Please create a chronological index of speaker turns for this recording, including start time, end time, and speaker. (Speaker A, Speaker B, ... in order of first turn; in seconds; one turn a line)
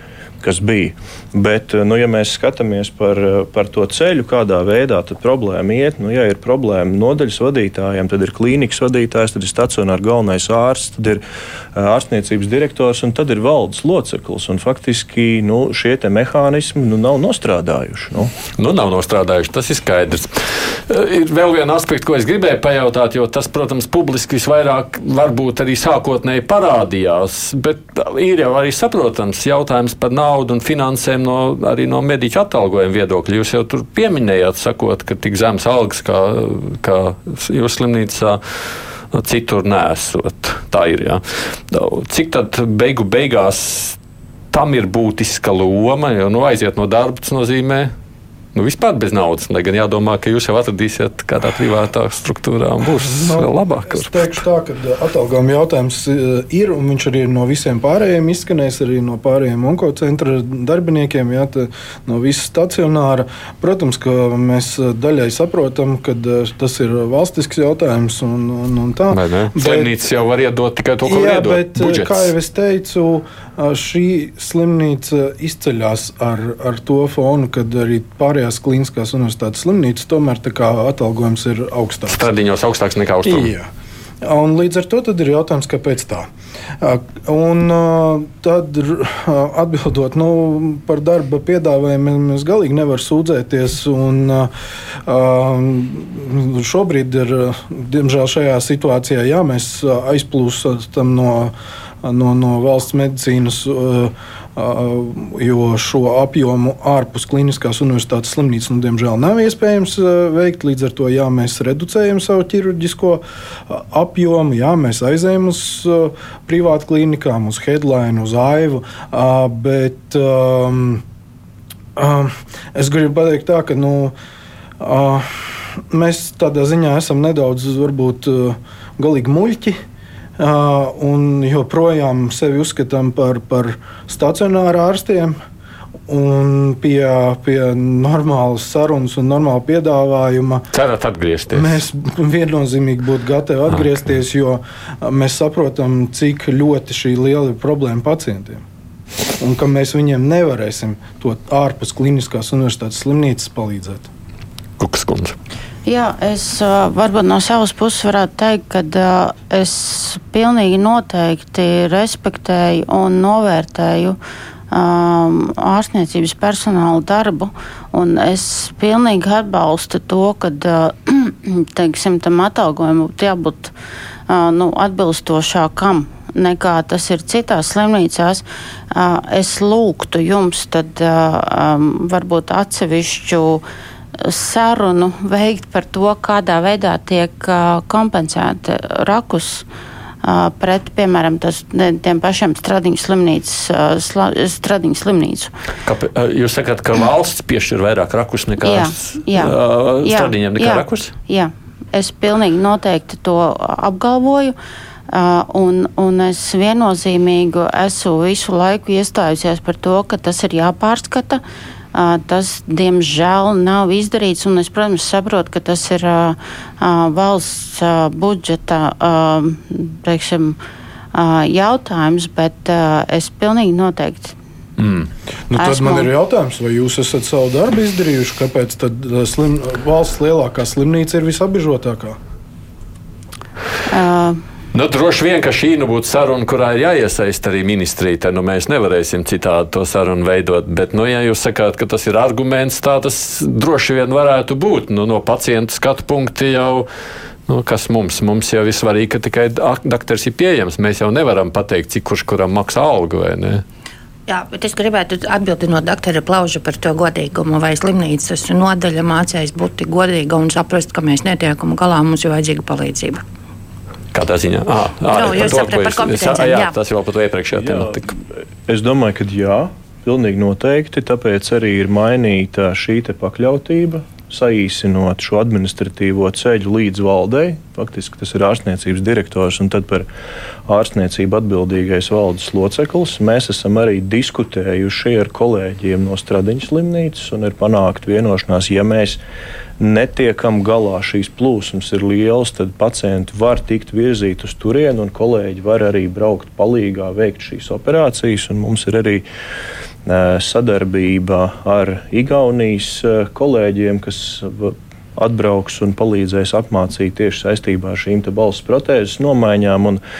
Speaker A: 0.4-11.2
Speaker A: 11.7-18.3
Speaker B: 18.6-38.4
Speaker B: 39.1-44.0
Speaker B: 44.5-47.9
Speaker B: 48.5-54.3
Speaker C: 52.8-69.9
Speaker B: 69.1-72.3
Speaker C: 71.0-82.2
Speaker B: 82.1-83.5
Speaker C: 83.2-83.7
Speaker C: 84.2-86.3
Speaker C: 86.8-94.5
Speaker C: 95.0-121.0
Speaker C: 122.0-124.1
Speaker C: 124.8-129.8
Speaker C: 130.4-135.3
Speaker C: 136.1-140.7
Speaker B: 140.7-141.8
Speaker C: 141.5-148.6
Speaker C: 149.4-154.1
Speaker B: 154.8-155.3
Speaker D: 155.8-164.2
Speaker D: 164.7-173.7
Speaker D: 174.3-183.6
Speaker D: 184.2-189.6
Speaker D: 190.2-195.5
Speaker B: 195.8-201.1
Speaker D: 198.6-204.5
Speaker D: 205.1-211.4
Speaker D: 211.9-220.6
Speaker D: 221.1-224.3
Speaker B: 224.8-225.1
Speaker C: 225.5-232.2
Speaker D: 225.6-226.1
Speaker D: 233.9-234.4
Speaker B: 234.7-246.9
Speaker B: 247.5-253.6
Speaker E: 254.3-263.2
Speaker B: 264.1-268.1
Speaker E: 265.1-266.8
Speaker A: 267.5-280.1
Speaker A: 280.7-289.2
Speaker A: 289.8-299.2
Speaker A: 300.1-310.0